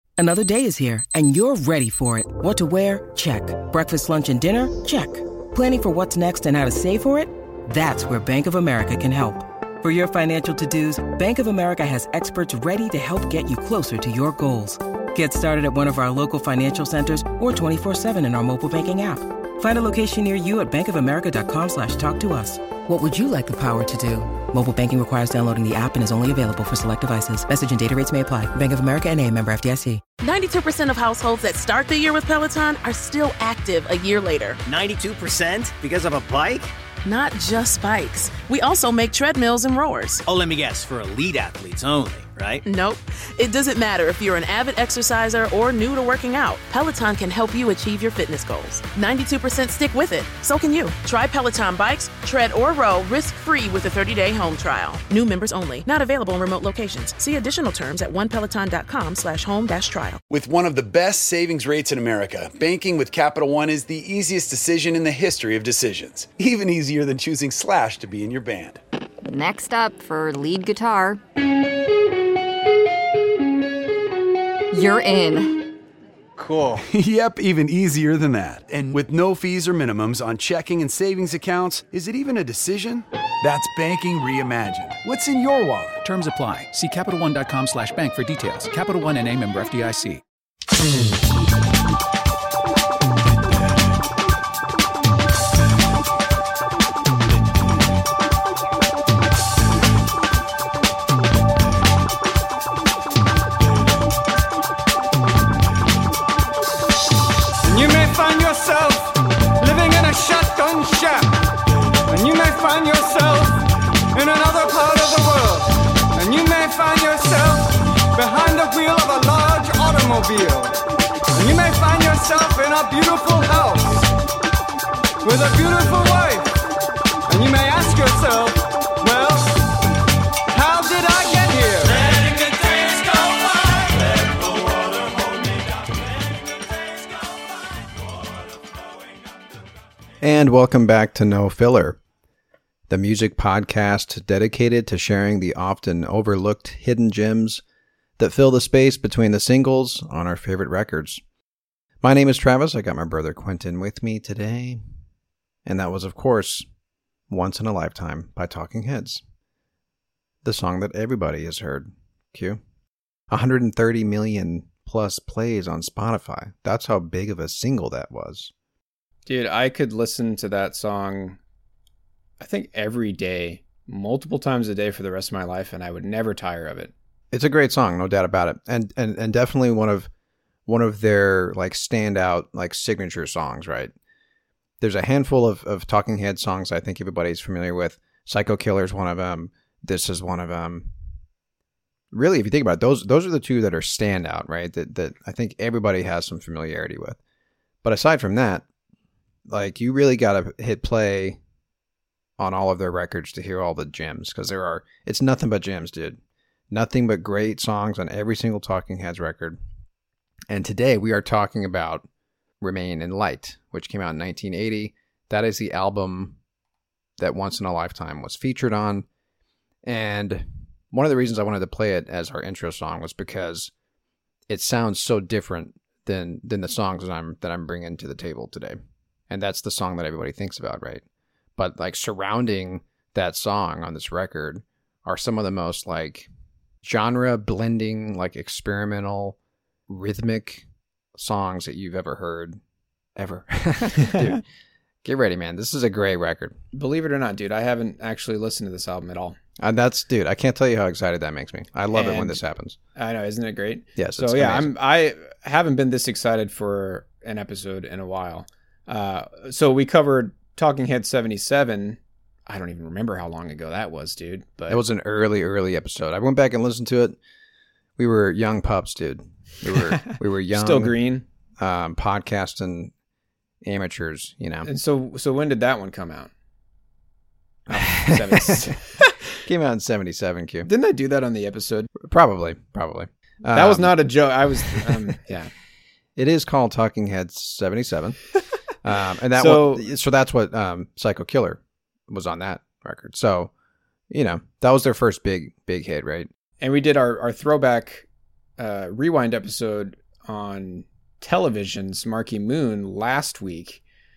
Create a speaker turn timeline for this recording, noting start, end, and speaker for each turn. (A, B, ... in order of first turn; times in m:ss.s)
0:00.2-0:30.0 A
0:30.2-0:34.6 B
0:34.6-0:36.7 C
0:37.0-0:40.2 B
0:40.3-0:42.6 C
0:42.6-1:00.2 B
1:00.3-1:08.8 D
1:09.2-1:11.2 E
1:14.7-1:15.7 E
1:16.4-1:26.0 D
1:26.0-1:30.2 F
1:47.6-1:51.4 G
1:52.1-2:00.8 G
2:01.4-2:04.1 G
2:05.2-2:06.6 G
2:07.3-2:09.7 G
2:10.5-2:12.3 G
2:20.2-2:22.0 H
2:22.9-2:27.6 H
2:28.2-2:31.2 H
2:32.0-2:34.8 H
2:35.7-2:36.7 H
2:37.3-2:39.2 H
2:40.4-2:42.6 H
2:43.3-2:48.5 H
2:49.3-2:51.4 I
2:52.4-2:56.9 I
2:57.3-3:00.1 H
3:00.7-3:03.9 H
3:04.8-3:10.9 H
3:12.1-3:17.2 H
3:17.8-3:18.7 H
3:19.5-3:21.4 H
3:22.4-3:26.2 H
3:26.7-3:29.6 H
3:30.5-3:32.1 H
3:32.6-3:36.4 H
3:37.2-3:39.1 H
3:39.8-3:43.7 H
3:44.5-3:51.0 H
3:51.6-3:56.3 H
3:56.8-3:59.4 H
3:59.9-4:02.6 H
4:03.2-4:04.4 H
4:04.0-4:04.4 I
4:05.0-4:06.6 H
4:06.7-4:09.4 I
4:09.6-4:12.8 H
4:11.9-4:12.4 I
4:13.0-4:24.8 I
4:14.0-4:14.7 H
4:24.7-4:27.2 H
4:28.0-4:30.9 H
4:29.9-4:31.3 I
4:31.6-4:32.9 H
4:33.6-4:34.7 H
4:34.6-4:36.3 I
4:37.7-4:39.1 I
4:37.8-4:38.8 H
4:39.4-4:40.7 H
4:40.7-4:41.9 I
4:42.0-4:44.0 H
4:43.5-4:45.5 I
4:44.7-4:45.0 H
4:46.2-4:48.2 H
4:48.8-4:53.5 H
4:49.4-4:49.9 I
4:54.1-4:56.3 H
4:56.6-4:58.1 I
4:58.6-5:03.8 I